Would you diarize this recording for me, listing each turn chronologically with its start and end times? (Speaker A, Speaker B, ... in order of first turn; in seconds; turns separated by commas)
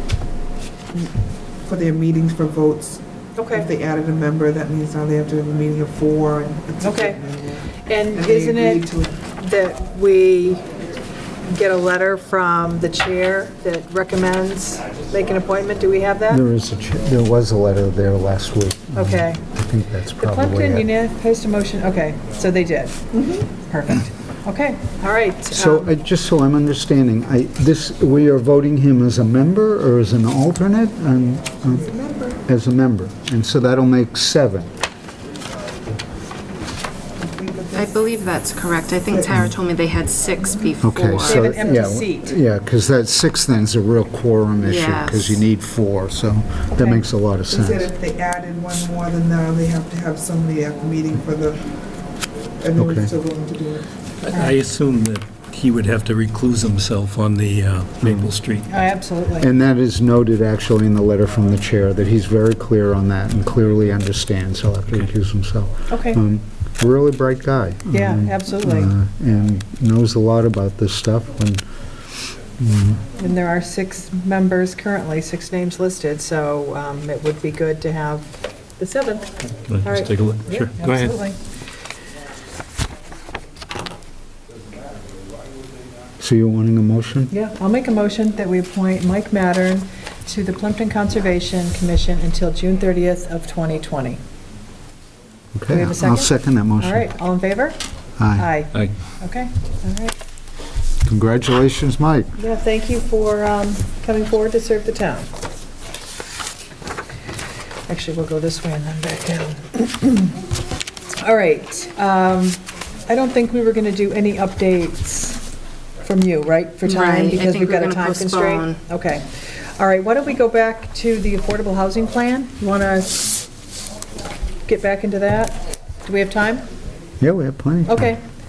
Speaker A: 0.9-9.1, Speaker B: 3.4-3.7, Speaker B: 6.8-7.2, Speaker B: 7.8-10.8, Speaker B: 11.4-16.4, Speaker C: 16.3-20.9, Speaker B: 18.9-19.4, Speaker B: 20.2-25.9, Speaker A: 23.1-23.4, Speaker C: 25.5-31.9, Speaker A: 31.8-32.4, Speaker C: 32.5-34.7, Speaker A: 37.2-38.1, Speaker D: 37.7-41.5, Speaker A: 39.1-39.5, Speaker C: 40.8-47.9, Speaker B: 41.2-42.3, Speaker D: 44.6-45.4, Speaker B: 46.7-47.0, Speaker A: 47.5-51.7, Speaker A: 52.6-53.9, Speaker C: 52.8-53.1, Speaker E: 54.2-58.6, Speaker C: 58.0-58.3, Speaker B: 58.7-59.5, Speaker C: 59.4-71.7, Speaker B: 65.9-66.2, Speaker B: 67.9-68.9, Speaker C: 72.3-73.0, Speaker B: 73.2-79.3, Speaker E: 79.7-81.2, Speaker B: 79.8-81.4, Speaker C: 86.2-87.3, Speaker B: 87.3-94.2, Speaker C: 95.5-97.0, Speaker B: 95.7-97.8, Speaker C: 98.2-98.5, Speaker B: 98.3-100.1, Speaker C: 101.0-102.3, Speaker B: 102.4-105.3, Speaker B: 107.9-110.4, Speaker B: 111.2-115.4, Speaker B: 116.0-123.3, Speaker D: 116.8-118.8, Speaker B: 124.7-126.6, Speaker C: 127.2-128.1, Speaker B: 127.8-128.2